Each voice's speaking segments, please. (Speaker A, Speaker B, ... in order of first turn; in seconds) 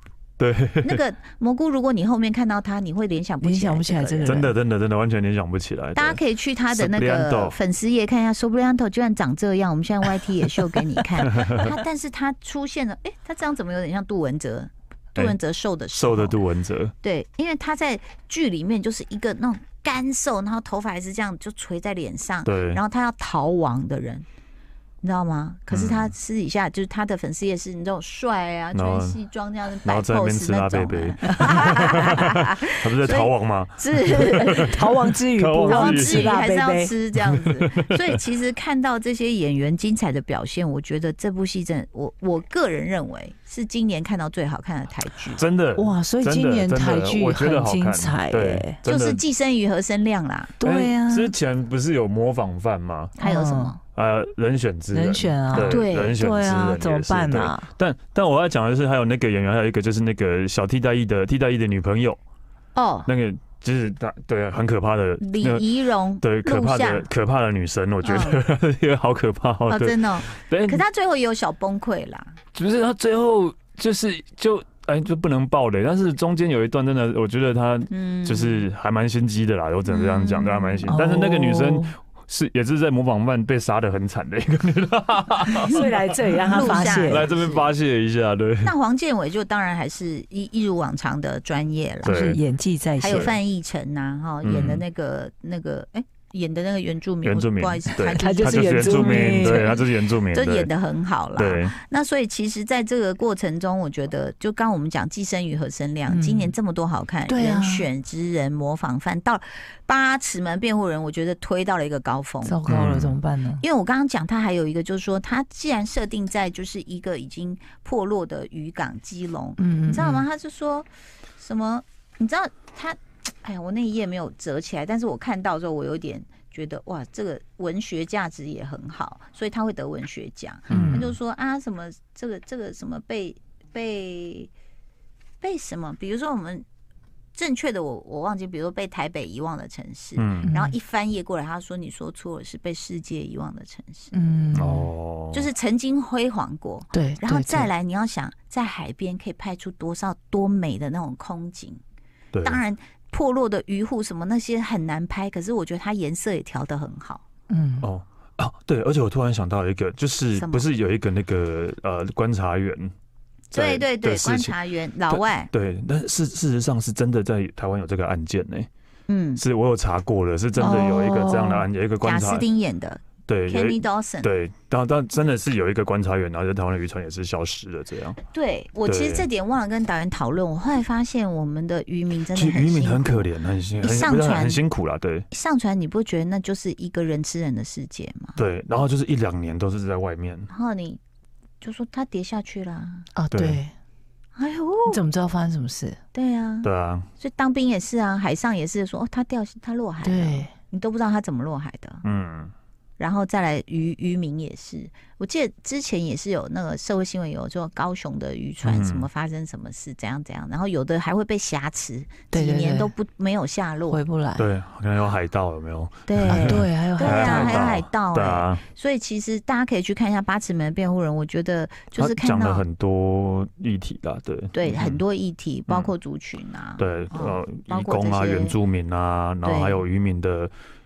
Speaker A: 0.4-1.0, 4.2-6.2, 6.7-7.6, 11.2-11.7, 15.9-16.9, 22.5-22.8, 25.7-26.1, 28.7-29.2, 29.8-36.3, 37.2-38.2, 45.4-49.2, 50.6-53.2, 54.0-62.2, 63.1-65.7, 66.2-70.8, 72.5-88.7, 92.0-92.4, 93.0-93.4, 94.4-94.8, 97.2-100.7, 101.4-101.8, 112.7-113.2, 130.7-131.1, 140.2-140.5, 144.5-145.5, 152.3-152.6, 157.8-162.9, 163.5-164.6, 165.1-168.7, 169.4-172.5, 173.3-178.2, 178.9-179.3, 182.3-185.3, 188.4-190.5, 193.3-193.6, 196.6-197.1, 202.0-202.5, 208.6-209.1, 214.4-218.6, 222.0-225.0, 226.8-230.5
Speaker B: 0.8-4.5, 6.0-16.4, 17.0-24.3, 25.0-34.9, 35.7-45.4, 48.9-50.5, 53.2-53.8, 55.5-56.2, 62.8-63.1, 65.2-67.1, 68.0-68.4, 69.7-72.4, 77.9-78.6, 79.9-80.9, 86.5-87.7, 88.6-92.2, 93.0-112.6, 113.6-134.5, 135.4-136.7, 137.3-144.2, 145.3-151.8, 152.4-157.2, 160.4-160.7, 163.5-165.5, 169.1-169.4, 170.6-171.5, 172.0-174.3, 178.3-183.3, 183.8-184.6, 185.3-188.4, 190.5-191.0, 191.6-193.1, 194.4-195.0, 196.1-202.0, 203.0-214.0, 216.1-222.7, 224.5-228.6, 229.4-229.8
Speaker C: 3.4-4.5, 34.5-36.9, 45.8-48.8, 50.6-51.3, 53.2-53.7, 54.9-57.7, 80.9-81.9, 85.7-87.3, 92.1-93.3, 98.0-99.8, 106.1-106.5, 107.3-107.9, 112.5-113.6, 119.6-120.2, 130.7-131.1, 140.5-140.8, 144.1-144.9, 146.9-147.7, 157.5-157.9, 170.6-171.6, 193.2-193.7, 194.9-196.0, 200.0-200.5, 212.3-212.9, 213.9-214.5, 216.3-217.7